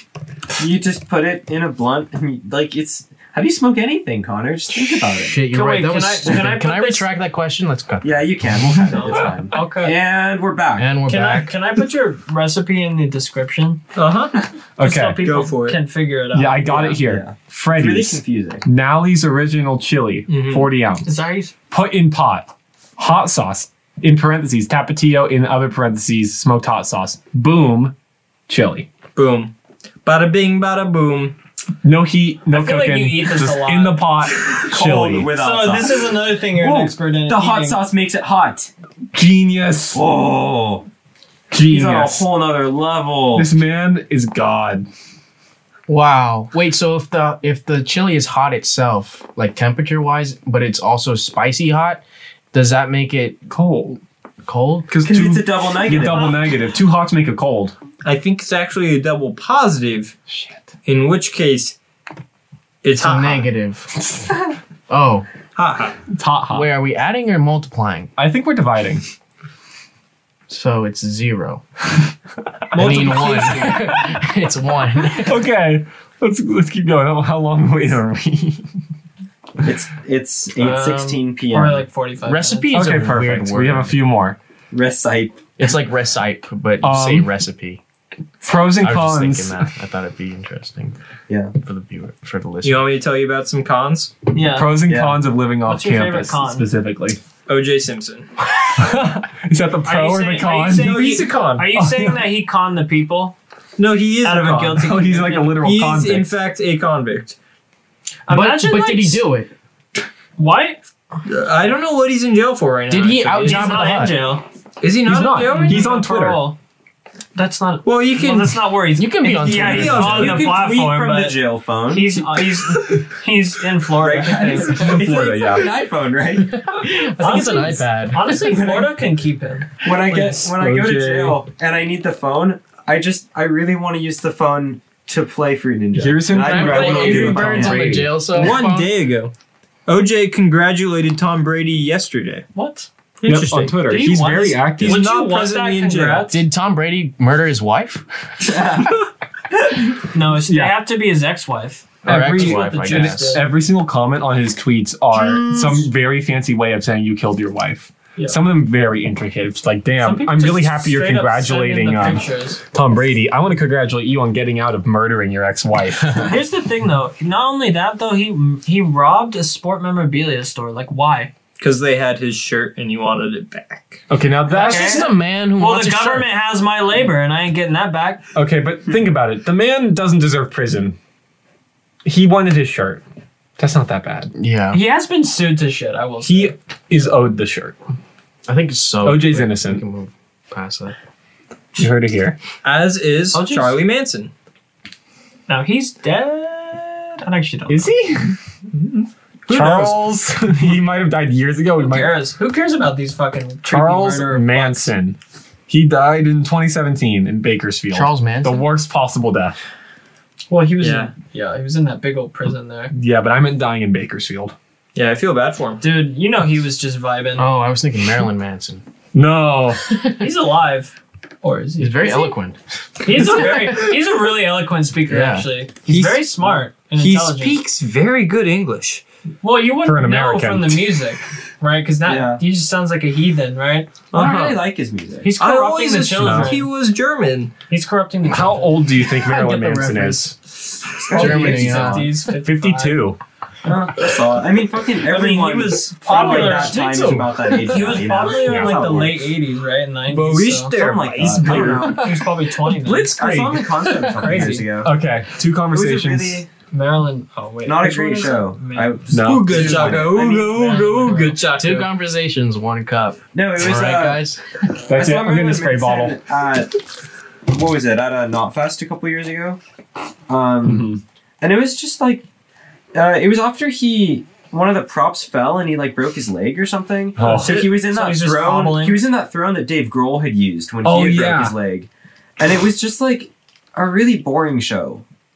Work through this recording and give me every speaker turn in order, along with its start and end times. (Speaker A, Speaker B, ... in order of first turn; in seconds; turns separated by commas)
Speaker A: 0.6-5.4, Speaker B: 4.8-8.8, Speaker C: 5.5-7.1, Speaker A: 8.0-10.9, Speaker C: 8.8-10.0, Speaker B: 10.8-11.5, Speaker C: 11.1-13.8, Speaker D: 13.9-14.4, Speaker E: 14.8-15.3, Speaker C: 14.8-16.9, Speaker D: 15.2-15.8, Speaker E: 16.3-21.1, Speaker A: 16.7-18.6, Speaker D: 20.3-20.7, Speaker C: 21.0-21.5, Speaker E: 21.7-27.9, Speaker E: 28.5-28.9, Speaker D: 29.1-29.5, Speaker D: 30.0-31.4, Speaker E: 31.8-35.3, Speaker C: 32.5-34.1, Speaker A: 34.5-38.7, Speaker C: 35.3-37.8, Speaker E: 39.1-40.0, Speaker A: 39.9-40.9, Speaker E: 41.5-42.3, Speaker A: 41.6-43.5, Speaker E: 43.3-44.9, Speaker B: 45.9-53.4, Speaker E: 53.5-54.0, Speaker B: 54.4-54.9, Speaker E: 54.9-57.7, Speaker A: 55.0-56.4, Speaker D: 58.0-60.1, Speaker E: 60.3-60.7, Speaker D: 60.8-61.8, Speaker D: 62.8-63.5, Speaker B: 63.0-64.2, Speaker B: 64.9-65.2, Speaker D: 65.5-66.0, Speaker E: 66.1-66.7, Speaker B: 66.5-68.1, Speaker E: 68.2-69.0, Speaker B: 70.5-71.6, Speaker B: 72.7-75.4, Speaker D: 72.8-74.0, Speaker E: 75.2-78.6, Speaker A: 79.6-81.8, Speaker C: 80.6-82.7, Speaker B: 82.2-84.0, Speaker E: 82.7-84.4, Speaker A: 84.7-85.5, Speaker B: 85.6-87.8, Speaker E: 86.8-87.3, Speaker E: 88.4-89.7, Speaker B: 88.8-90.9, Speaker A: 91.3-91.5, Speaker B: 91.5-92.9, Speaker D: 92.6-94.1, Speaker C: 94.3-94.8, Speaker E: 94.5-97.2, Speaker A: 94.8-95.2, Speaker C: 95.6-96.7, Speaker D: 97.5-98.3, Speaker E: 98.7-101.1, Speaker C: 99.8-103.3, Speaker D: 100.7-101.7, Speaker E: 101.7-102.2, Speaker D: 103.8-104.9, Speaker C: 104.2-105.6, Speaker E: 104.8-106.3, Speaker D: 105.5-107.3, Speaker C: 108.3-109.3, Speaker B: 108.3-109.5, Speaker C: 110.4-110.8, Speaker D: 111.2-114.0, Speaker B: 112.9-114.3, Speaker C: 113.4-114.4, Speaker D: 114.8-115.8, Speaker E: 115.0-116.5, Speaker C: 115.4-116.6, Speaker C: 117.3-124.9, Speaker D: 117.8-118.6, Speaker B: 119.0-120.4, Speaker D: 119.5-120.6, Speaker A: 120.2-122.4, Speaker A: 124.0-126.6, Speaker E: 124.7-125.7, Speaker B: 126.5-128.7, Speaker C: 127.2-130.5, Speaker A: 128.5-128.9, Speaker A: 129.8-138.1, Speaker E: 130.4-131.4, Speaker E: 135.9-138.2, Speaker B: 136.3-138.9, Speaker D: 138.2-139.3, Speaker D: 139.9-142.4, Speaker C: 142.5-146.4, Speaker D: 143.2-143.7, Speaker E: 143.2-145.0, Speaker D: 144.8-146.3, Speaker B: 146.3-148.0, Speaker A: 148.4-149.0, Speaker C: 150.1-153.4, Speaker E: 150.4-150.8, Speaker B: 152.0-153.4, Speaker E: 152.0-166.3, Speaker C: 158.2-158.4, Speaker C: 160.0-162.6, Speaker C: 166.2-171.3, Speaker D: 171.6-174.0, Speaker E: 174.1-175.1, Speaker C: 174.5-178.2, Speaker B: 174.5-176.3, Speaker E: 178.3-181.0, Speaker E: 182.0-183.0, Speaker E: 183.6-184.3, Speaker B: 184.4-184.8, Speaker C: 184.7-186.5, Speaker E: 186.2-187.8, Speaker B: 188.4-190.9, Speaker E: 189.0-189.8, Speaker E: 191.8-192.4, Speaker D: 192.6-194.3, Speaker C: 193.3-193.8, Speaker C: 195.5-197.9, Speaker E: 197.7-198.3, Speaker D: 198.7-200.0, Speaker E: 199.5-202.2, Speaker C: 201.8-204.9, Speaker E: 203.7-209.6, Speaker B: 207.9-208.6, Speaker C: 210.5-212.9, Speaker D: 210.8-211.1, Speaker E: 212.9-214.5, Speaker D: 214.9-215.8, Speaker C: 215.8-217.5, Speaker B: 217.3-218.8, Speaker E: 219.1-219.8, Speaker C: 220.1-222.3, Speaker B: 221.8-223.9, Speaker C: 223.0-227.6, Speaker B: 225.1-225.5, Speaker D: 225.9-229.0, Speaker C: 229.4-233.9, Speaker E: 229.8-230.9, Speaker A: 232.0-232.4, Speaker D: 234.1-234.7, Speaker A: 234.1-235.3, Speaker C: 235.2-236.7, Speaker D: 235.4-237.5, Speaker E: 236.1-236.6, Speaker C: 237.7-238.8, Speaker E: 238.2-240.3, Speaker B: 239.1-240.3, Speaker A: 240.9-242.1, Speaker B: 241.1-242.2, Speaker C: 241.1-243.1, Speaker E: 242.1-243.2, Speaker A: 243.6-249.3, Speaker C: 245.1-246.9, Speaker B: 246.1-248.1, Speaker C: 247.6-250.8, Speaker D: 250.1-252.0, Speaker A: 250.7-252.0, Speaker E: 251.2-252.0, Speaker C: 251.8-253.1, Speaker E: 252.8-253.8, Speaker A: 252.9-254.9, Speaker C: 254.0-254.6, Speaker E: 254.8-256.4, Speaker A: 255.7-256.5, Speaker C: 256.7-258.9, Speaker A: 257.6-260.4, Speaker E: 259.1-260.0, Speaker D: 259.2-261.9, Speaker C: 259.6-261.4, Speaker B: 261.5-264.4, Speaker A: 263.3-264.2, Speaker E: 264.9-266.2, Speaker A: 264.9-266.7, Speaker A: 267.5-269.6, Speaker A: 270.3-272.2, Speaker E: 270.6-271.0, Speaker A: 272.9-285.0, Speaker E: 277.2-277.6, Speaker C: 277.4-279.0, Speaker E: 280.8-281.6